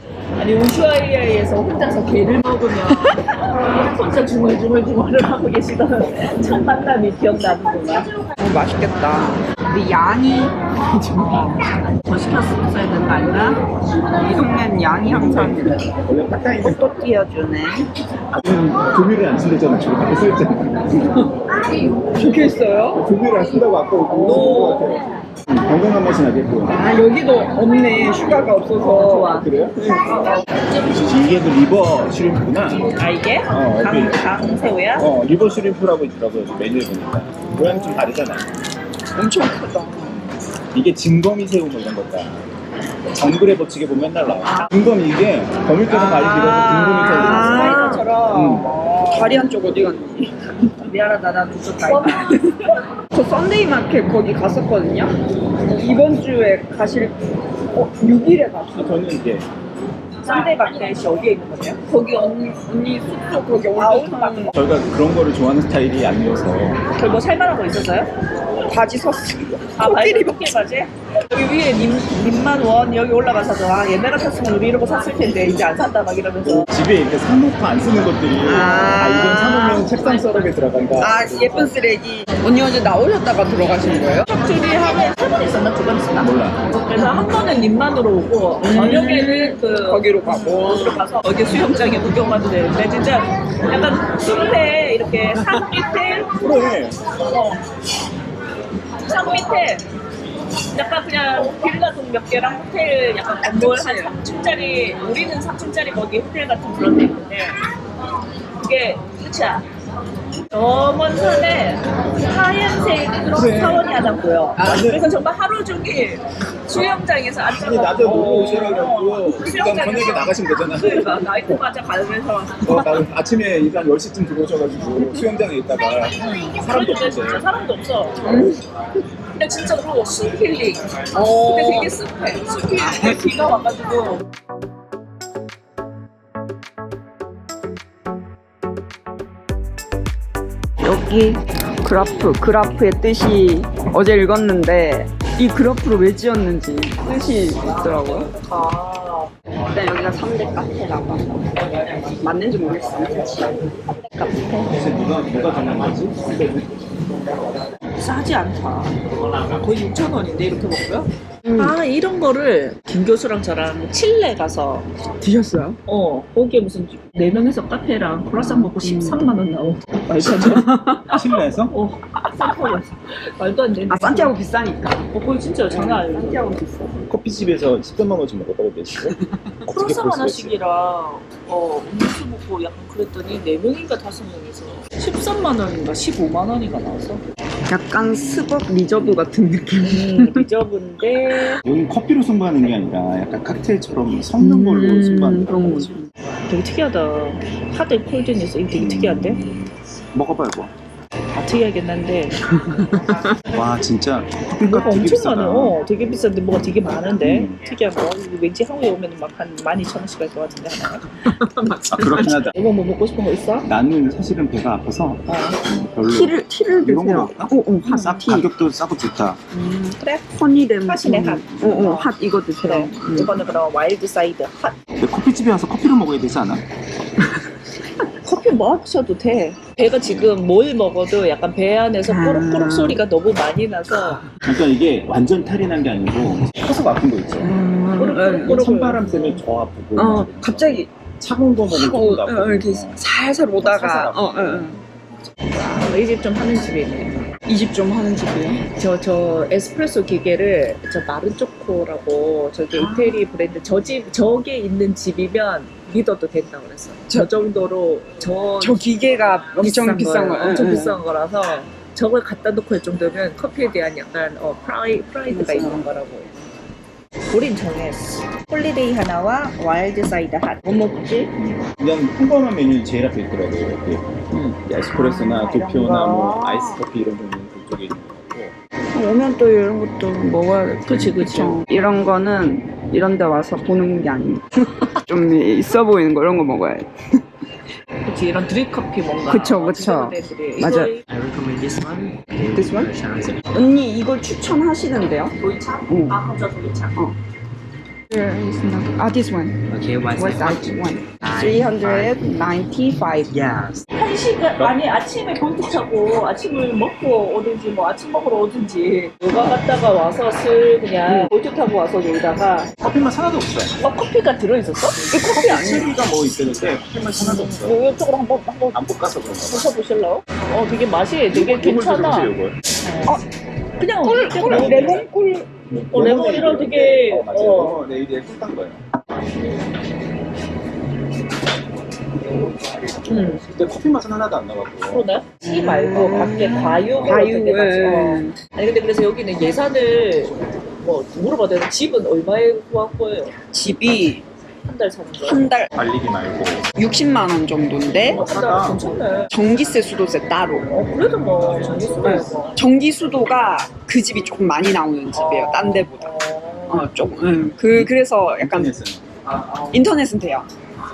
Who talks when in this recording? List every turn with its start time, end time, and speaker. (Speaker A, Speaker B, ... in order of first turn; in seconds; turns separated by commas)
Speaker A: 0.4-8.1, Speaker B: 2.9-3.1, Speaker B: 8.4-11.6, Speaker A: 12.0-13.6, Speaker B: 14.2-15.8, Speaker C: 15.1-16.9, Speaker B: 16.6-17.9, Speaker C: 18.4-21.2, Speaker B: 18.4-18.8, Speaker B: 22.1-23.0, Speaker C: 23.0-26.8, Speaker B: 24.1-24.6, Speaker A: 24.2-25.0, Speaker B: 26.7-30.3, Speaker A: 28.8-29.5, Speaker C: 29.3-29.8, Speaker A: 30.1-30.4, Speaker C: 30.9-32.9, Speaker A: 33.0-35.1, Speaker C: 33.5-34.2, Speaker C: 35.0-38.5, Speaker B: 37.3-38.1, Speaker B: 39.1-40.2, Speaker C: 40.1-42.5, Speaker C: 43.1-48.7, Speaker B: 45.9-48.0, Speaker A: 46.2-49.5, Speaker B: 49.1-50.5, Speaker A: 50.9-52.5, Speaker B: 52.0-55.1, Speaker B: 55.7-57.2, Speaker B: 57.7-59.0, Speaker C: 58.7-59.5, Speaker A: 60.2-62.0, Speaker B: 61.9-64.6, Speaker A: 63.7-64.5, Speaker C: 64.5-66.8, Speaker A: 67.0-68.1, Speaker B: 68.6-70.5, Speaker A: 69.8-76.7, Speaker C: 76.4-81.6, Speaker B: 78.4-79.8, Speaker A: 79.7-81.5, Speaker B: 81.0-84.3, Speaker A: 84.3-96.3, Speaker C: 86.2-86.6, Speaker B: 88.6-91.0, Speaker C: 96.3-97.0, Speaker A: 97.3-97.6, Speaker A: 99.0-99.8, Speaker A: 100.7-107.6, Speaker B: 103.4-104.2, Speaker A: 108.6-109.7, Speaker A: 110.5-122.9, Speaker C: 113.3-115.1, Speaker C: 117.6-121.6, Speaker C: 122.6-127.5, Speaker A: 126.2-128.3, Speaker B: 128.2-128.6, Speaker A: 129.3-134.2, Speaker B: 131.1-131.9, Speaker B: 133.0-133.5, Speaker B: 140.8-148.3, Speaker A: 148.3-149.3, Speaker B: 149.7-151.5, Speaker B: 152.2-153.6, Speaker B: 154.1-154.6, Speaker C: 154.6-156.4, Speaker A: 158.0-164.9, Speaker B: 161.4-161.7, Speaker B: 165.2-165.8, Speaker A: 165.8-171.2, Speaker B: 168.3-169.3, Speaker B: 170.1-171.2, Speaker C: 171.1-171.7, Speaker A: 171.7-174.3, Speaker B: 173.9-175.1, Speaker A: 175.1-176.6, Speaker B: 175.7-177.0, Speaker C: 177.1-180.6, Speaker A: 179.7-187.2, Speaker B: 187.7-190.4, Speaker A: 189.8-191.6, Speaker C: 191.6-196.1, Speaker B: 194.4-196.0, Speaker A: 196.5-199.4, Speaker C: 198.7-200.7, Speaker A: 201.3-202.3, Speaker C: 202.8-205.8, Speaker A: 204.6-211.2, Speaker C: 207.2-207.6, Speaker B: 211.5-211.8, Speaker C: 211.9-212.5, Speaker A: 212.0-213.7, Speaker C: 213.7-219.4, Speaker A: 215.3-215.8, Speaker B: 216.1-218.5, Speaker A: 219.5-220.2, Speaker B: 220.2-223.3, Speaker A: 220.8-224.8, Speaker C: 225.0-226.6, Speaker A: 228.2-234.2, Speaker C: 230.0-230.3, Speaker B: 232.1-233.0, Speaker C: 234.4-237.5, Speaker B: 237.4-238.7, Speaker A: 237.9-239.4, Speaker C: 238.4-243.0, Speaker B: 239.9-240.9, Speaker B: 241.7-244.8, Speaker C: 243.6-244.8, Speaker A: 245.6-247.3, Speaker B: 247.4-248.6, Speaker A: 248.8-258.8, Speaker B: 258.6-261.0, Speaker A: 259.6-266.3, Speaker B: 265.3-265.8, Speaker A: 267.3-271.3, Speaker C: 271.8-274.1, Speaker B: 274.3-275.5, Speaker C: 274.6-278.5, Speaker A: 275.4-276.7, Speaker B: 276.2-276.7, Speaker B: 278.9-287.2, Speaker A: 280.9-281.6, Speaker A: 288.0-291.0, Speaker B: 289.3-290.9, Speaker D: 291.0-293.5, Speaker B: 292.5-292.9, Speaker B: 293.5-295.3, Speaker A: 295.4-297.0, Speaker B: 295.9-296.2, Speaker B: 298.1-303.3, Speaker D: 299.7-302.2, Speaker D: 303.3-303.8, Speaker A: 303.9-312.8, Speaker B: 311.1-311.3, Speaker C: 312.8-313.8, Speaker A: 313.8-315.8, Speaker B: 315.1-315.9, Speaker C: 315.3-317.9, Speaker A: 317.1-318.8, Speaker C: 318.7-319.7, Speaker A: 319.4-322.3, Speaker C: 321.3-322.6, Speaker A: 322.8-323.2, Speaker A: 323.8-325.0, Speaker B: 324.0-325.5, Speaker C: 324.4-325.1, Speaker C: 325.9-328.8, Speaker A: 325.9-327.8, Speaker A: 333.1-333.4, Speaker C: 333.4-335.0, Speaker A: 334.9-343.3, Speaker B: 335.4-338.4, Speaker B: 343.5-344.2, Speaker A: 344.6-345.4, Speaker B: 345.2-345.7, Speaker C: 345.7-346.7, Speaker B: 346.8-348.2, Speaker C: 348.0-348.8, Speaker A: 348.0-349.3, Speaker B: 349.3-350.7, Speaker A: 350.7-352.6, Speaker B: 352.0-356.1, Speaker A: 355.1-356.9, Speaker B: 356.7-358.8, Speaker C: 358.4-359.1, Speaker B: 359.7-360.5